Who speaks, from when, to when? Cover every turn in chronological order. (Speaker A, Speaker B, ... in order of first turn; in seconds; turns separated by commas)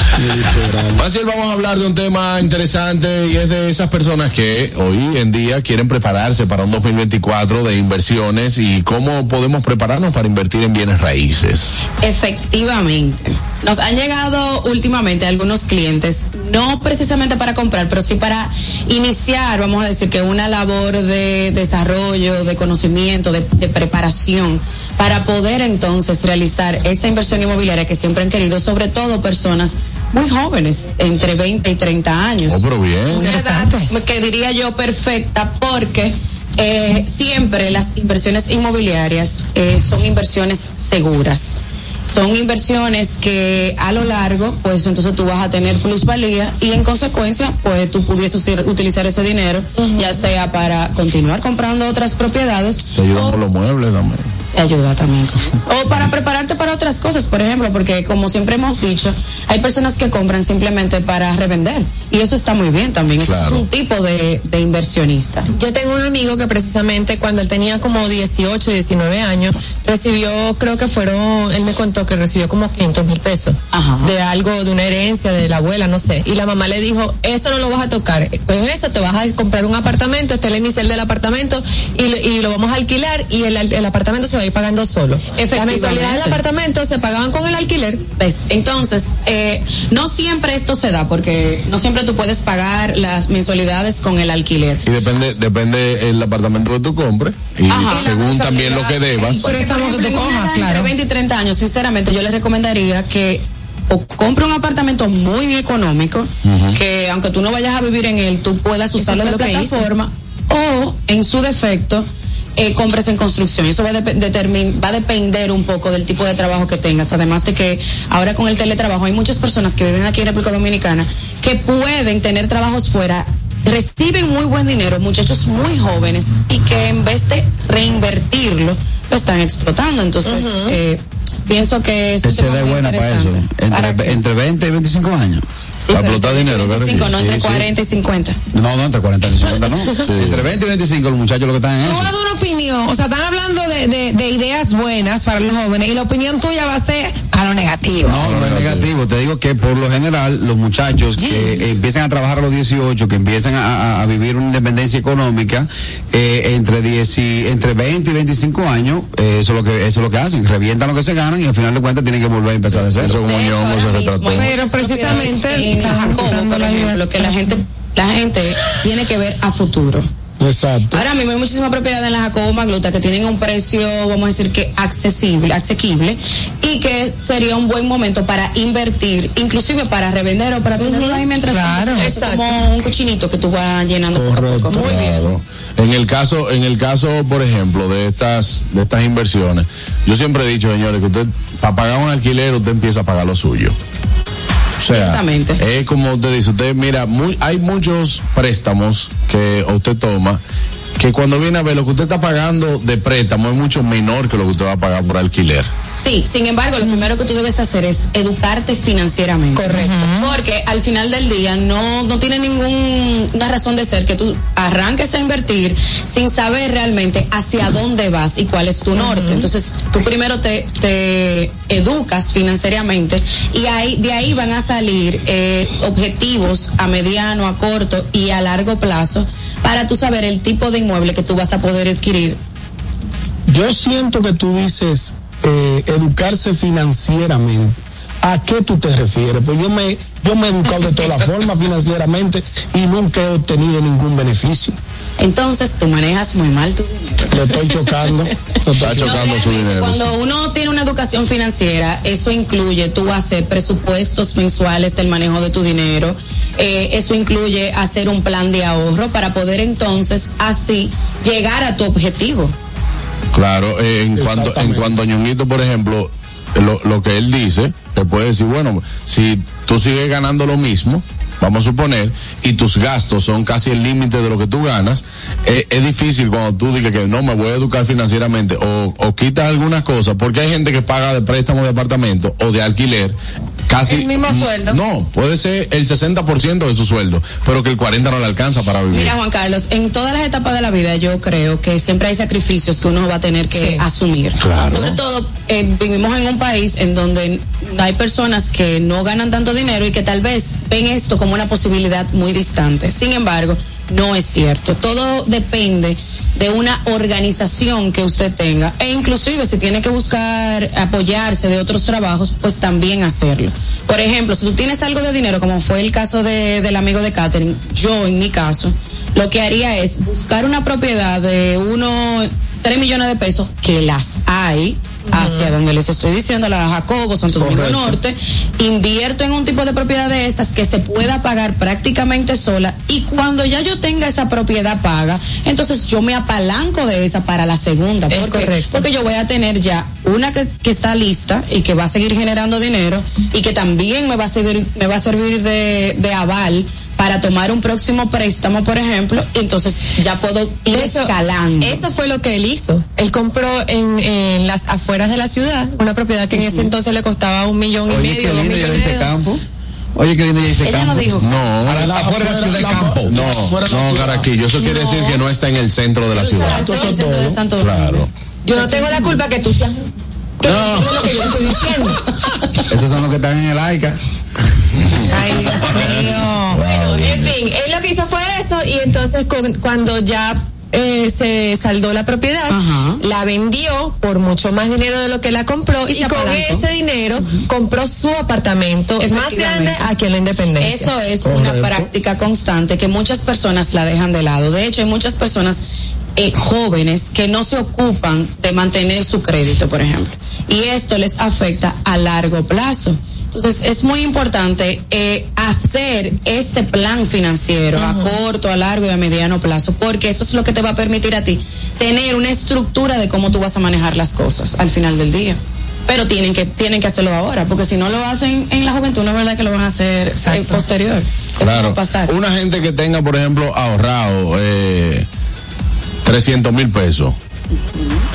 Speaker A: 0.2-1.0, Speaker B: 0.9-11.7, Speaker C: 12.0-53.4, Speaker B: 32.4-33.3, Speaker D: 33.1-33.9, Speaker E: 49.8-50.2, Speaker B: 53.0-54.3, Speaker C: 54.5-65.5, Speaker B: 63.2-63.6, Speaker E: 65.5-88.0, Speaker C: 73.7-74.1, Speaker C: 85.3-86.4, Speaker C: 88.2-94.8, Speaker B: 94.8-99.6, Speaker C: 97.7-98.3, Speaker D: 97.9-100.9, Speaker C: 99.3-112.0, Speaker B: 106.4-106.8, Speaker E: 109.0-109.9, Speaker C: 112.6-134.2, Speaker E: 130.3-130.7, Speaker F: 132.2-135.4, Speaker C: 135.8-138.4, Speaker B: 135.9-137.6, Speaker F: 138.5-142.1, Speaker B: 140.0-140.4, Speaker D: 141.8-148.2, Speaker F: 148.0-163.2, Speaker B: 148.2-148.9, Speaker D: 151.2-151.7, Speaker B: 162.7-164.8, Speaker C: 163.2-170.1, Speaker D: 164.3-167.5, Speaker A: 170.4-171.0, Speaker C: 170.9-184.9, Speaker E: 180.8-181.2, Speaker D: 181.5-182.1, Speaker E: 182.0-182.6, Speaker A: 184.1-184.9, Speaker B: 184.8-193.7, Speaker D: 184.8-185.2, Speaker B: 194.8-200.4, Speaker C: 194.8-195.6, Speaker B: 201.0-205.7, Speaker C: 205.9-232.4, Speaker E: 209.6-210.1, Speaker D: 209.6-210.3, Speaker A: 233.5-244.8, Speaker C: 245.2-248.2, Speaker A: 247.3-249.1, Speaker B: 248.8-250.1, Speaker C: 248.8-262.5, Speaker B: 263.3-283.1, Speaker A: 264.1-264.9, Speaker B: 283.7-289.1, Speaker D: 283.8-284.8, Speaker C: 288.9-351.8, Speaker D: 293.5-293.8, Speaker B: 294.4-295.0, Speaker A: 327.4-328.0, Speaker E: 338.1-338.9, Speaker E: 350.7-359.3, Speaker C: 356.4-356.7, Speaker F: 357.9-359.4, Speaker F: 359.9-363.2, Speaker C: 360.6-361.3, Speaker B: 361.2-361.9, Speaker A: 361.7-364.3, Speaker B: 363.1-366.7, Speaker C: 364.6-365.2, Speaker C: 366.2-369.2, Speaker A: 366.2-367.4, Speaker B: 367.6-368.1, Speaker E: 368.5-369.8, Speaker E: 370.4-372.0, Speaker B: 370.4-371.0, Speaker C: 370.8-371.3, Speaker F: 372.7-374.0, Speaker B: 374.8-377.3, Speaker D: 375.1-376.6, Speaker E: 376.6-390.9, Speaker C: 382.5-383.0, Speaker C: 385.8-386.6, Speaker C: 389.0-389.8, Speaker C: 390.6-395.6, Speaker A: 391.2-391.9, Speaker C: 396.2-422.1, Speaker D: 420.2-420.6, Speaker B: 421.4-425.1, Speaker B: 426.0-427.1, Speaker C: 427.7-428.0